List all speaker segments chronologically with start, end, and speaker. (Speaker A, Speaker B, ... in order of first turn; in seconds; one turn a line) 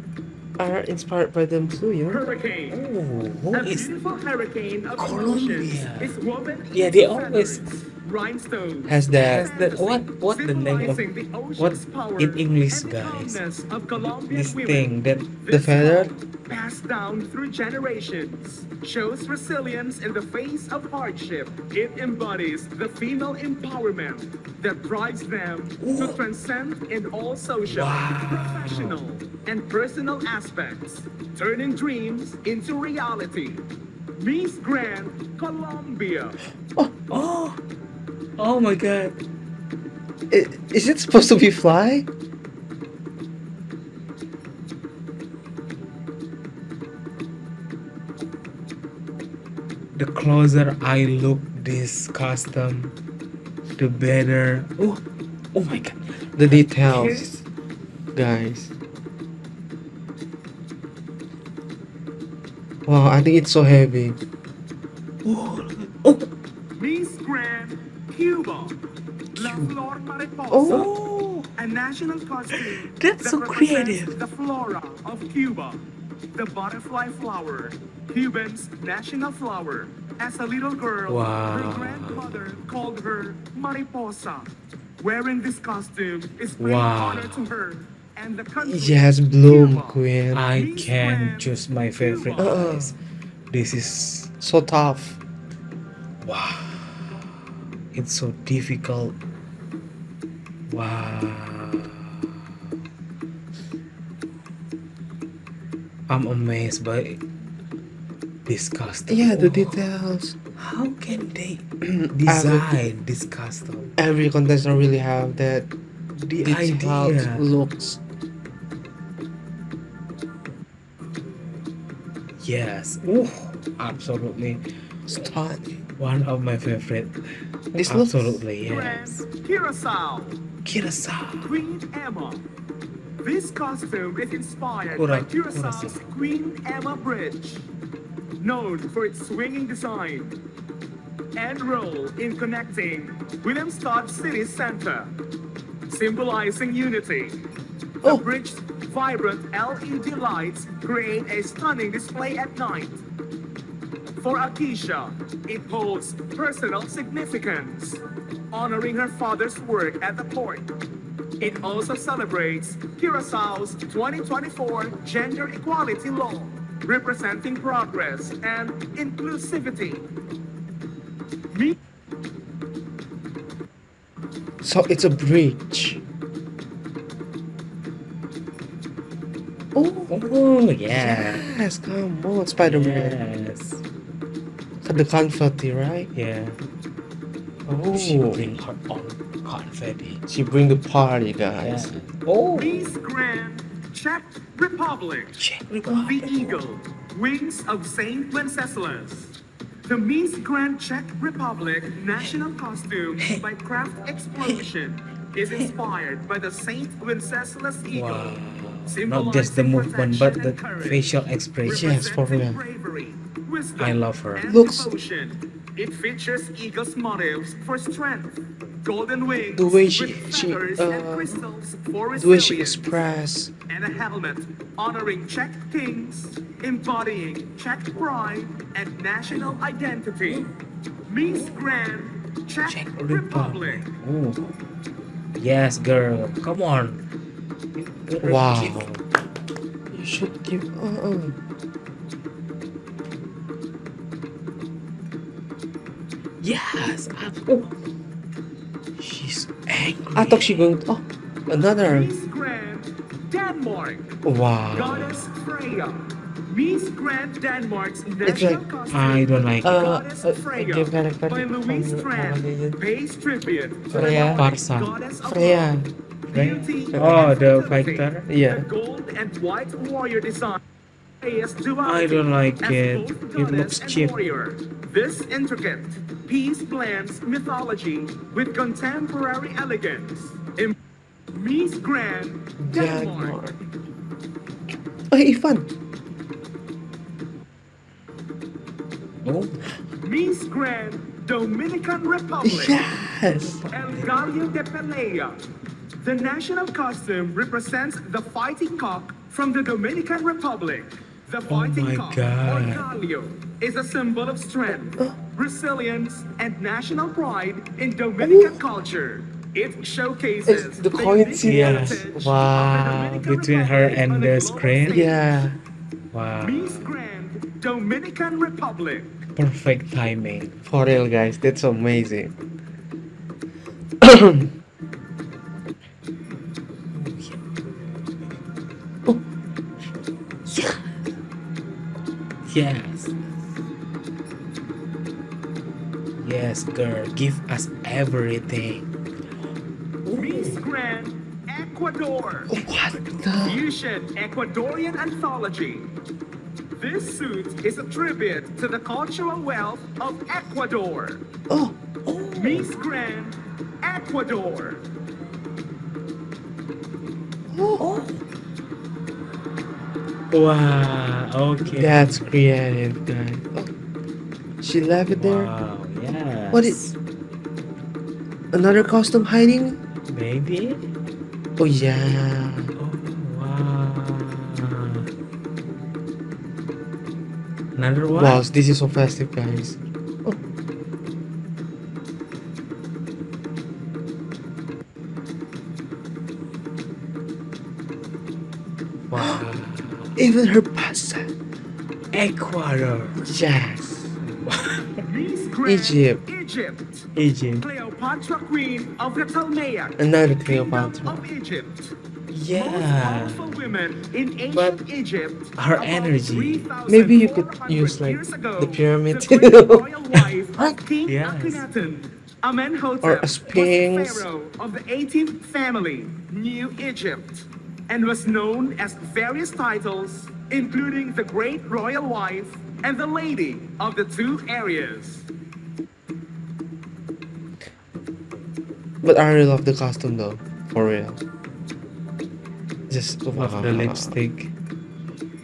Speaker A: 0.6-2.3
Speaker B: 2.1-2.8
Speaker C: 2.7-3.9
Speaker B: 3.5-14.9
Speaker C: 5.0-6.2
Speaker C: 6.7-7.7
Speaker A: 8.8-9.5
Speaker C: 9.1-11.0
Speaker C: 11.6-13.4
Speaker C: 14.0-15.3
Speaker B: 15.4-33.6
Speaker A: 15.5-16.1
Speaker C: 25.8-26.2
Speaker C: 27.7-29.0
Speaker B: 34.2-36.4
Speaker C: 37.1-37.6
Speaker C: 38.4-39.2
Speaker A: 40.3-42.1
Speaker C: 49.9-52.9
Speaker C: 53.8-55.0
Speaker C: 55.5-57.4
Speaker A: 56.4-57.3
Speaker A: 58.1-58.7
Speaker A: 62.9-64.2
Speaker C: 65.2-66.2
Speaker B: 66.8-68.8
Speaker C: 69.3-69.7
Speaker B: 69.3-70.9
Speaker A: 70.5-70.9
Speaker C: 70.7-71.5
Speaker B: 71.5-75.8
Speaker C: 72.5-74.2
Speaker B: 76.3-92.5
Speaker C: 81.1-82.5
Speaker C: 86.6-87.5
Speaker A: 88.6-90.5
Speaker C: 90.3-93.0
Speaker A: 92.4-92.9
Speaker C: 93.5-94.3
Speaker A: 94.4-95.2
Speaker C: 96.2-97.3
Speaker C: 97.9-99.2
Speaker C: 100.7-102.5
Speaker C: 106.1-107.2
Speaker C: 108.5-109.8
Speaker A: 109.1-110.3
Speaker C: 110.6-113.9
Speaker A: 111.9-112.7
Speaker A: 114.0-115.7
Speaker C: 116.2-117.4
Speaker A: 116.4-118.0
Speaker C: 122.4-124.6
Speaker A: 125.1-125.8
Speaker C: 126.0-129.2
Speaker A: 127.7-128.4
Speaker B: 128.6-130.4
Speaker C: 130.6-131.5
Speaker B: 131.4-132.4
Speaker B: 133.2-137.7
Speaker C: 135.0-136.0
Speaker B: 138.4-140.4
Speaker B: 141.3-145.1
Speaker B: 145.9-147.4
Speaker B: 148.0-153.0
Speaker B: 154.2-160.7
Speaker B: 161.4-170.1
Speaker A: 174.6-176.0
Speaker A: 179.7-180.2
Speaker C: 180.1-181.4
Speaker A: 180.9-183.2
Speaker C: 182.6-183.8
Speaker A: 184.8-186.1
Speaker C: 186.1-186.6
Speaker C: 187.7-190.2
Speaker A: 187.8-188.5
Speaker A: 190.3-191.9
Speaker C: 191.5-192.9
Speaker B: 192.5-199.3
Speaker C: 195.4-196.7
Speaker B: 199.8-223.0
Speaker C: 203.2-203.4
Speaker C: 204.4-204.7
Speaker C: 205.4-205.7
Speaker C: 207.9-212.1
Speaker A: 211.7-212.6
Speaker C: 213.8-214.5
Speaker A: 214.4-214.9
Speaker A: 219.5-221.3
Speaker A: 222.2-223.5
Speaker B: 223.7-230.5
Speaker C: 229.3-229.6
Speaker B: 231.1-233.9
Speaker C: 232.7-234.5
Speaker C: 235.4-237.0
Speaker C: 237.7-239.0
Speaker A: 238.2-238.9
Speaker A: 239.9-241.4
Speaker C: 246.4-247.7
Speaker C: 249.0-250.7
Speaker A: 250.1-252.1
Speaker B: 251.8-254.2
Speaker A: 254.2-254.8
Speaker C: 254.7-255.2
Speaker B: 254.7-265.7
Speaker A: 258.2-258.6
Speaker C: 258.9-260.0
Speaker A: 259.6-262.8
Speaker C: 263.9-264.9
Speaker A: 263.9-264.6
Speaker A: 265.2-265.9
Speaker B: 266.3-270.6
Speaker C: 266.3-268.3
Speaker A: 266.9-267.3
Speaker A: 268.3-268.6
Speaker B: 271.2-280.8
Speaker C: 271.8-274.3
Speaker B: 281.3-283.4
Speaker A: 282.6-283.6
Speaker A: 285.1-285.7
Speaker C: 289.2-289.7
Speaker B: 290.0-292.8
Speaker A: 292.4-293.6
Speaker C: 293.3-294.1
Speaker B: 293.7-295.4
Speaker B: 296.0-315.2
Speaker C: 301.5-302.9
Speaker A: 308.2-308.6
Speaker A: 310.4-313.2
Speaker C: 311.4-312.1
Speaker C: 313.2-315.1
Speaker A: 314.9-315.6
Speaker C: 316.1-316.9
Speaker B: 316.4-319.2
Speaker C: 319.4-320.6
Speaker A: 320.6-322.4
Speaker A: 324.0-324.5
Speaker C: 326.9-327.4
Speaker C: 330.5-330.9
Speaker C: 332.5-333.2
Speaker C: 336.2-338.9
Speaker C: 340.0-340.6
Speaker B: 340.1-342.6
Speaker A: 342.5-343.6
Speaker B: 343.4-345.9
Speaker B: 346.8-351.2
Speaker A: 351.5-351.8
Speaker C: 352.1-352.7
Speaker B: 352.3-354.8
Speaker A: 357.5-357.9
Speaker C: 357.8-358.2
Speaker C: 360.3-362.3
Speaker A: 361.6-363.7
Speaker A: 364.6-365.5
Speaker C: 365.1-366.9
Speaker A: 366.5-366.8
Speaker A: 368.5-369.8
Speaker C: 370.1-370.8
Speaker A: 371.6-372.7
Speaker C: 372.8-375.1
Speaker C: 377.8-378.4
Speaker A: 378.1-380.4
Speaker C: 389.1-390.2
Speaker A: 389.1-389.4
Speaker A: 390.1-391.3
Speaker C: 392.1-393.3
Speaker A: 393.2-394.1
Speaker C: 394.3-395.0
Speaker B: 395.0-397.1
Speaker A: 395.6-396.2
Speaker C: 397.1-397.6
Speaker B: 397.6-401.9
Speaker A: 400.0-401.2
Speaker C: 402.3-403.8
Speaker B: 402.5-425.3
Speaker C: 405.6-406.7
Speaker A: 406.9-409.9
Speaker C: 411.1-411.6
Speaker A: 413.0-414.2
Speaker A: 429.0-431.2
Speaker A: 432.9-434.1
Speaker C: 433.3-434.5